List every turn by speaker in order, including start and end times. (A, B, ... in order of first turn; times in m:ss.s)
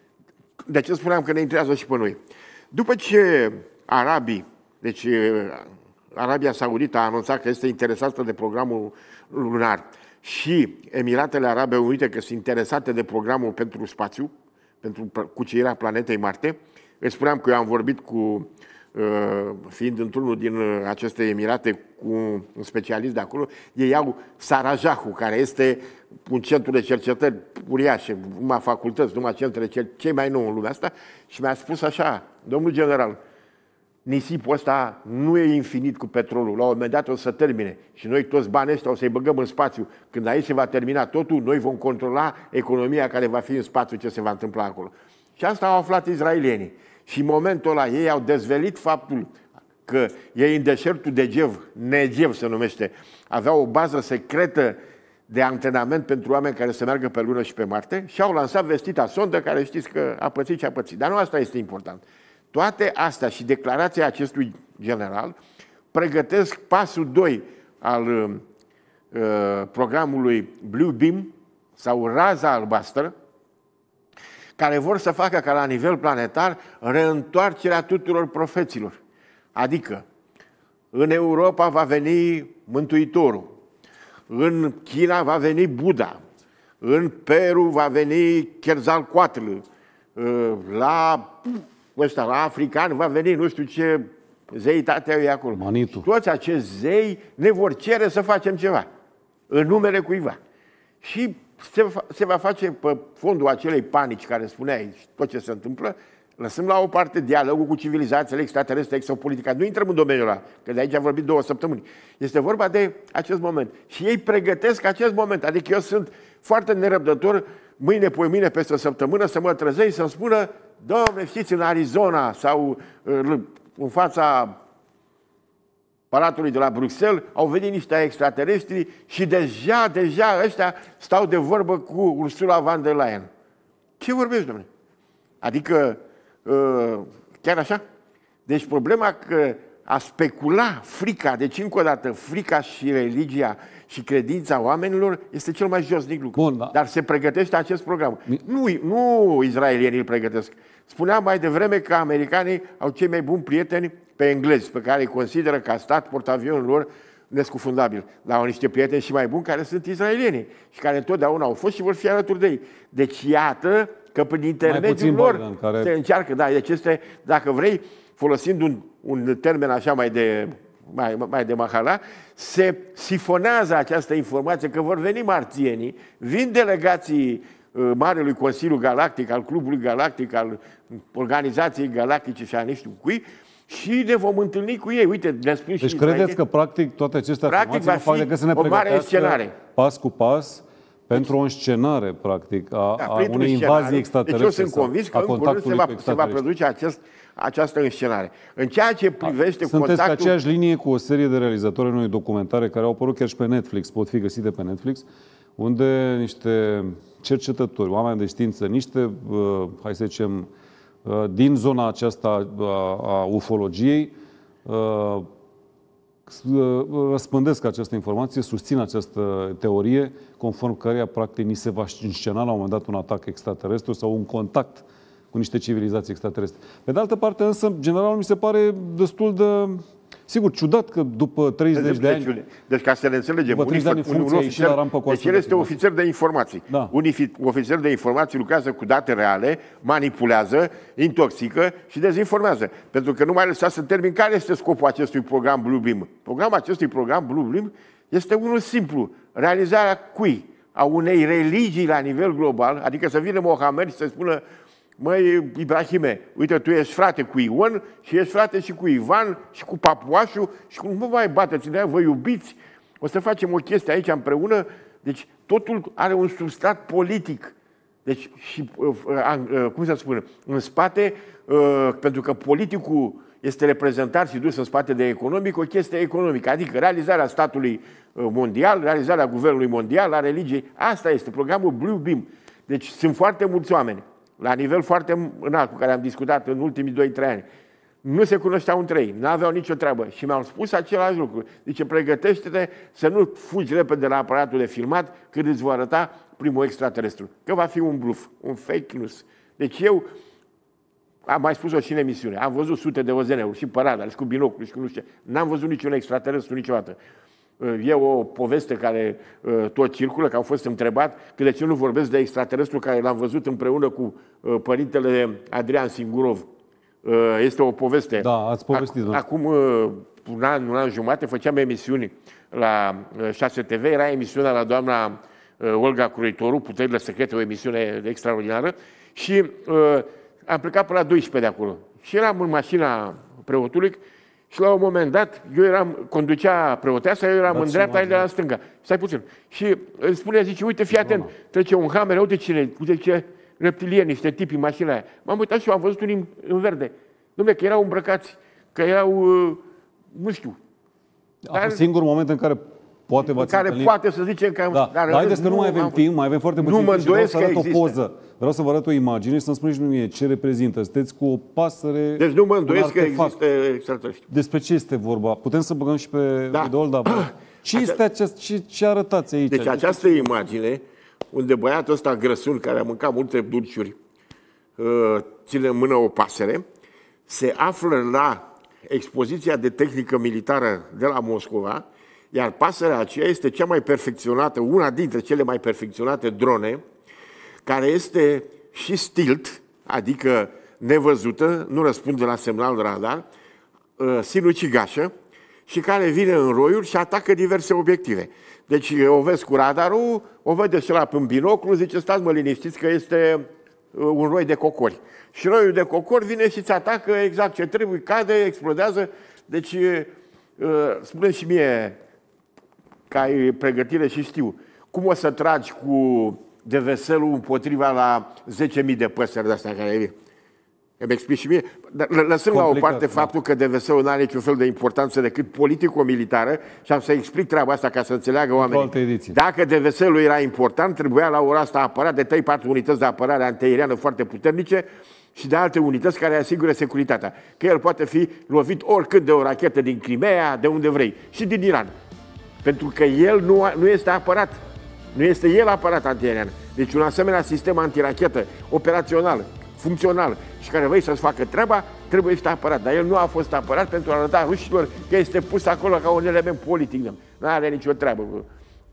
0:00.6-0:02.2 A
0:02.7-0:33.2 A
0:34.0-0:49.3 A
0:49.9-0:54.8 A
0:55.3-1:05.4 A
1:05.9-1:08.4 A
1:09.1-1:13.1 A
1:14.6-1:19.0 A
1:19.5-1:20.0 A
1:20.9-1:23.5 A
1:24.3-1:26.2 A
1:26.8-1:29.6 A
1:30.2-1:38.9 A
1:35.5-1:36.1 B
1:39.5-1:40.4 A
1:41.0-2:04.6 A
2:06.1-2:13.3 A
2:14.0-2:14.7 A
2:15.4-2:17.8 A
2:18.5-3:06.4 A
2:26.4-2:26.7 B
2:44.6-2:45.9 B
3:05.8-3:16.4 B
3:07.5-3:09.5 A
3:13.0-3:20.3 A
3:19.6-3:25.0 B
3:25.6-3:30.5 B
3:31.0-3:34.1 B
3:34.6-3:35.3 B
3:36.3-3:52.3 B
3:51.7-4:14.4 A
3:53.5-3:55.8 B
4:15.0-4:47.4 A
4:48.0-5:00.0 A
5:01.2-5:07.0 A
5:07.6-5:16.5 A
5:17.0-5:50.6 A
5:18.2-5:19.2 B
5:37.5-5:38.3 B
5:41.0-5:41.3 B
5:51.4-5:53.9 B
5:51.5-5:51.8 A
5:53.2-5:56.0 A
5:54.7-6:03.4 B
5:56.6-5:58.0 A
6:02.2-6:04.2 A
6:04.3-6:10.4 B
6:06.5-6:08.0 A
6:09.5-6:10.8 A
6:11.3-6:14.0 A
6:14.8-6:16.6 A
6:17.3-6:26.8 A
6:27.6-6:33.2 A
6:34.0-6:35.1 A
6:35.7-6:52.0 A
6:53.1-7:00.1 A
7:01.0-7:21.9 A
7:02.5-7:03.3 B
7:08.6-7:09.4 B
7:22.6-7:24.6 A
7:25.1-7:38.5 A